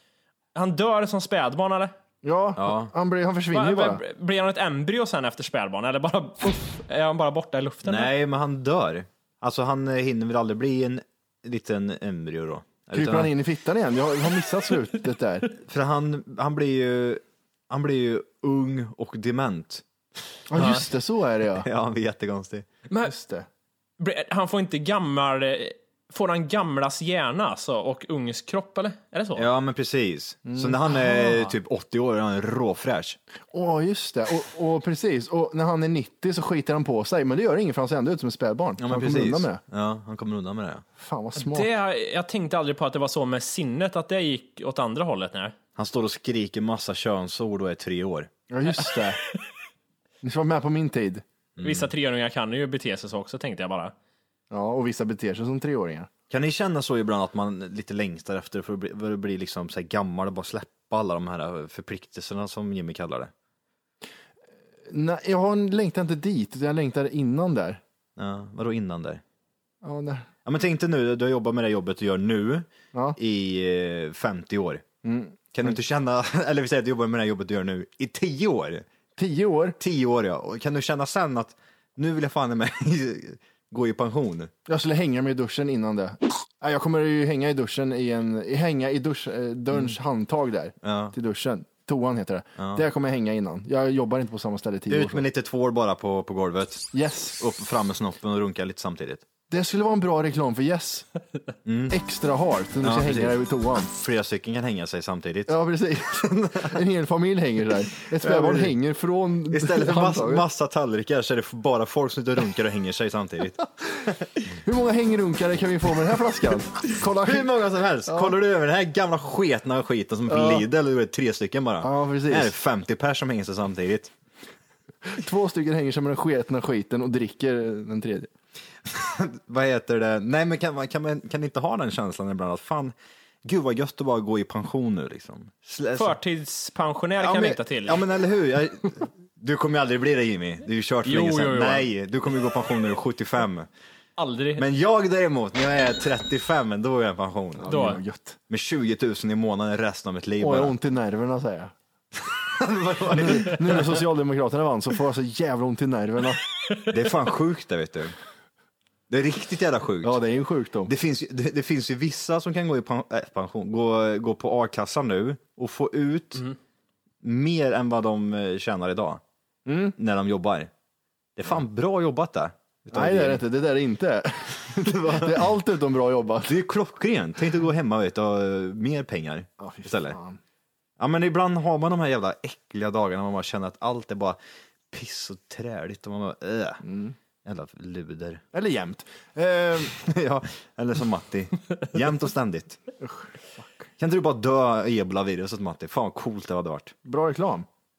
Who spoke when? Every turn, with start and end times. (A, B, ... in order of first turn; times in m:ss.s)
0:00.5-0:01.9 A
0:02.2-0:04.0 B
0:02.6-0:02.9 C
0:03.5-0:08.1 A
0:07.8-0:13.3 C
0:12.9-0:15.5 B
0:15.6-0:19.8 C
0:20.5-0:21.7 B
0:20.6-0:20.8 A
0:21.6-0:22.7 C
0:23.0-0:23.5 B
0:24.0-0:29.5 A
0:29.3-0:33.2 C
0:30.4-0:31.4 B
0:33.5-0:39.6 B
0:38.8-0:40.8 C
0:41.0-0:41.7 B
0:41.4-0:45.5 A
0:45.8-0:48.3 C
0:48.5-0:49.2 B
0:50.2-0:51.2 B
0:51.6-0:51.9 C
0:51.6-0:53.9 A
0:54.5-0:56.1 B
0:56.3-1:03.3 C
1:04.9-1:07.8 B
1:08.2-1:09.2 C
1:09.8-1:10.3 B
1:10.4-1:14.8 C
1:15.0-1:15.7 B
1:15.5-1:18.8 C
1:19.2-1:19.8 B
1:19.8-1:24.5 C
1:24.7-1:35.2 B
1:30.8-1:31.1 C
1:32.6-1:32.8 C
1:34.9-1:39.2 C
1:36.9-1:37.4 B
1:39.5-1:41.0 B
1:41.6-1:42.0 C
1:41.9-1:43.9 B
1:42.8-1:43.4 C
1:43.9-1:45.5 C
1:45.5-1:50.4 B
1:46.2-1:46.8 C
1:48.1-1:48.8 C
1:49.5-1:53.6 C
1:54.0-1:57.5 B
1:57.0-2:04.1 C
1:58.0-1:58.3 B
2:00.3-2:00.6 B
2:01.8-2:02.5 B
2:05.0-2:08.3 B
2:08.8-2:16.2 C
2:15.9-2:18.0 A
2:17.2-2:23.7 C
2:21.0-2:21.9 A
2:24.2-2:24.6 A
2:24.6-2:27.9 C
2:27.6-2:28.4 B
2:27.7-2:28.0 A
2:28.5-2:30.7 C
2:30.4-2:31.7 B
2:32.4-2:34.0 C
2:33.1-2:36.4 B
2:36.9-2:38.1 C
2:39.1-2:40.2 C
2:40.0-2:40.9 B
2:40.8-2:46.4 C
2:47.2-2:49.2 C
2:49.6-2:49.9 B
2:50.0-2:50.7 C
2:51.4-2:53.4 C
2:52.9-2:56.6 B
2:54.7-2:55.5 C
2:56.5-3:00.2 C
2:59.6-3:00.4 B
3:01.0-3:04.4 C
3:04.9-3:06.8 C
3:06.8-3:07.1 B
3:07.4-3:08.4 C
3:08.5-3:10.0 B
3:09.9-3:12.8 C
3:13.0-3:13.9 B
3:14.0-3:16.9 C
3:17.0-3:17.7 B